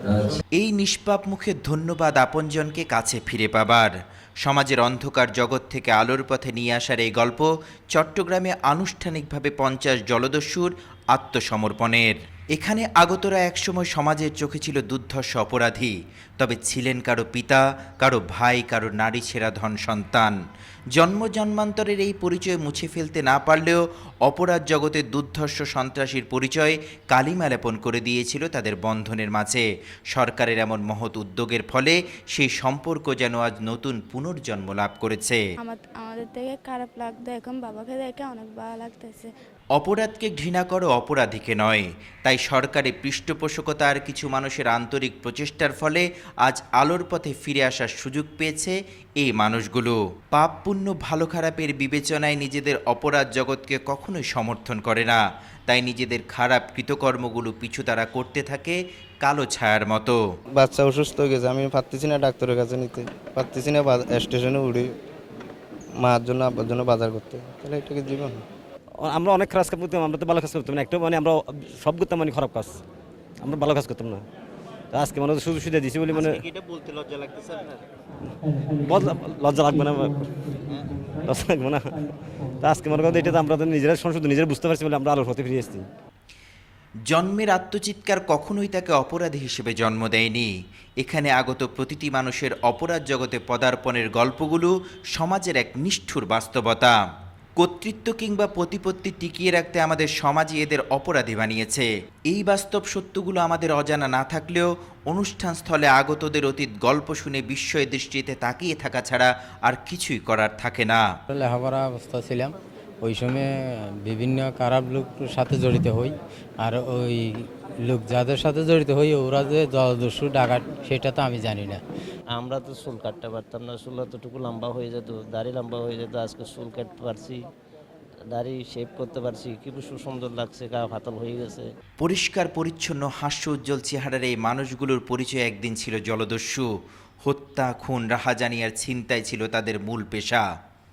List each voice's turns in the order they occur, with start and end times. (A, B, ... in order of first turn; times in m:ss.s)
0:00.6-0:03.9 A
0:04.4-0:20.3 A
0:20.9-0:35.4 A
0:35.6-0:39.3 B
0:39.8-1:00.2 A
1:00.6-1:04.9 C
1:06.0-1:08.4 C
1:09.1-1:11.3 D
1:11.8-1:12.7 D
1:13.4-1:14.2 D
1:14.9-1:16.4 D
1:18.8-1:20.6 D
1:21.2-1:21.8 D
1:22.6-1:25.8 D
1:27.1-1:37.0 A
1:37.6-1:51.0 A
1:51.3-2:01.8 E
2:02.3-2:07.5 F
2:08.3-2:11.7 F
2:12.0-2:16.7 A
2:17.2-2:20.4 A